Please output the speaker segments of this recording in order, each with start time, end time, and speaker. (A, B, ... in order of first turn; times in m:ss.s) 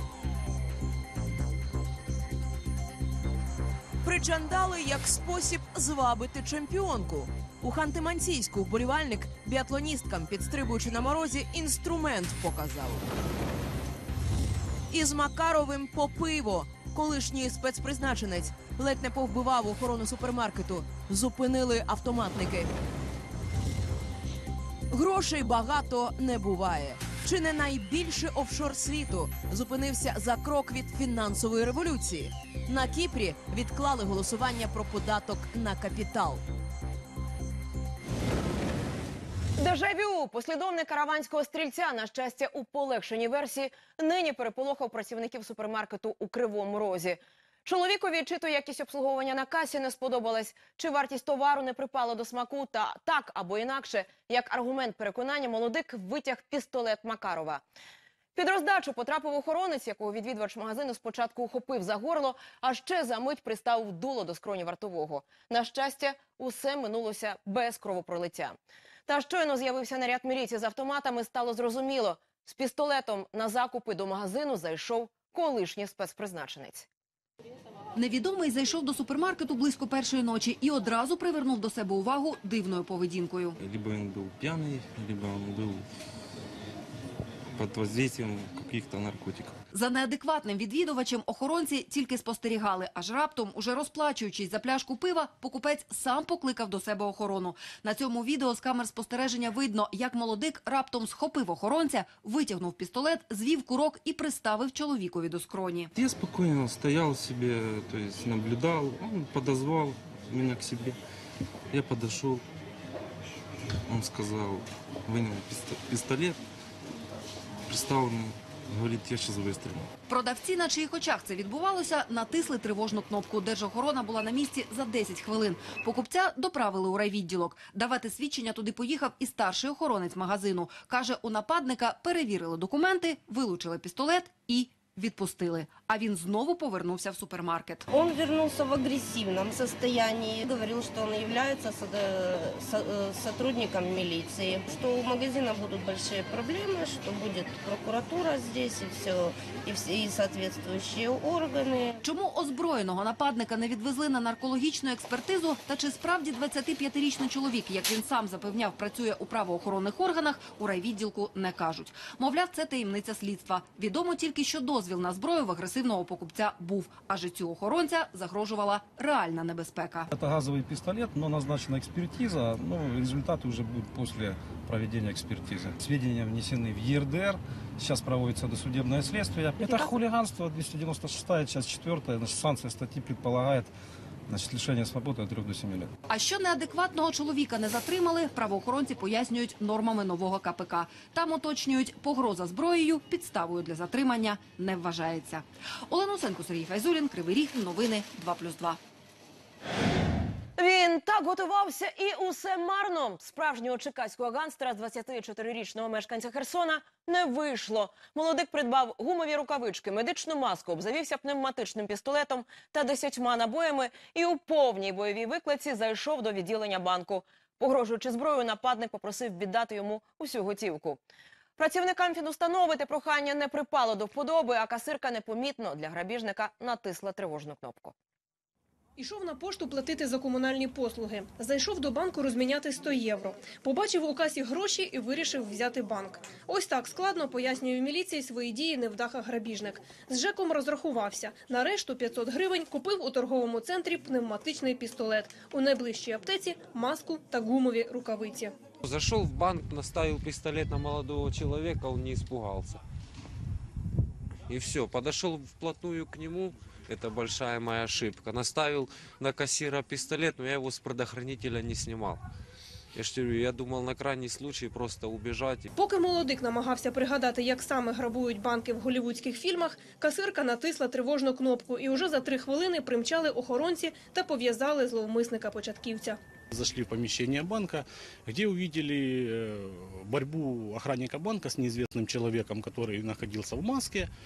0:04.0-0:13.0 A
0:14.9-0:22.7 A
0:24.9-0:36.4 A
0:39.6-0:57.6 B
0:58.3-1:08.6 B
1:09.1-1:16.9 B
1:17.9-1:23.5 C
1:23.6-1:25.8 D
1:27.6-1:29.5 D
1:29.7-1:45.9 C
1:45.9-1:51.0 D
1:51.7-1:52.4 D
1:53.9-1:56.4 D
1:57.7-1:59.9 D
2:00.1-2:17.8 C
2:17.9-2:32.0 E
2:32.0-2:50.1 C
2:50.1-3:03.7 F
2:59.6-2:59.9 C
3:04.3-3:05.9 F
3:06.1-3:18.8 C
3:20.6-3:41.0 B
3:41.6-3:47.9 B
3:49.0-4:08.5 G
4:08.8-4:12.8 H
4:14.5-4:22.2 H
4:22.9-4:25.7 H
4:25.7-4:36.2 G
4:36.5-4:44.1 I